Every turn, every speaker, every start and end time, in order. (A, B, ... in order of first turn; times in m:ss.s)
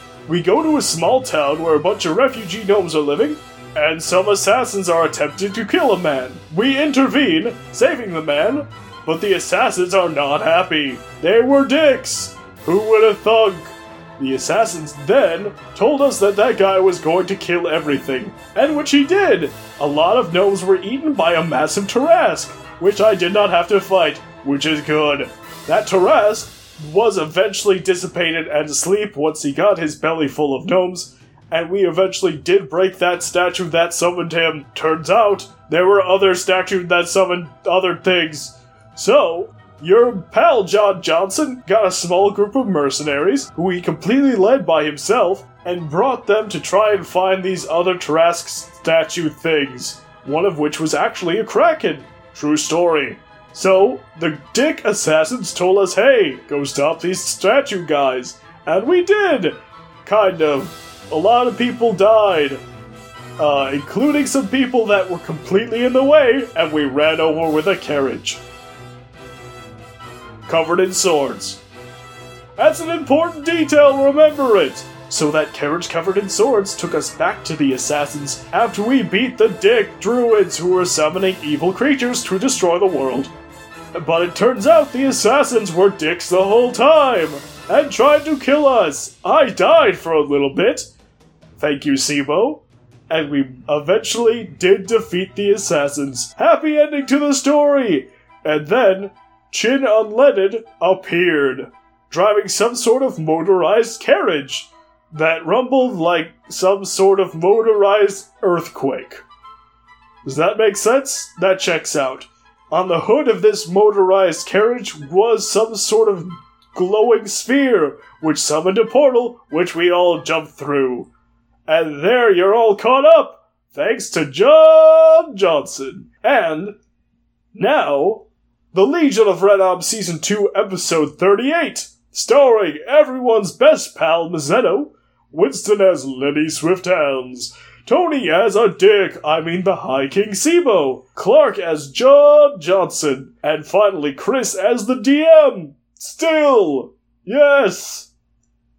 0:00.3-1:02.6 A
1:03.4-1:08.4 A
1:10.5-1:11.6 A
1:12.6-1:23.3 A
1:23.9-1:30.9 A
1:31.6-1:49.2 A
1:50.2-2:01.1 A
2:01.7-2:06.7 A
2:07.6-2:28.1 A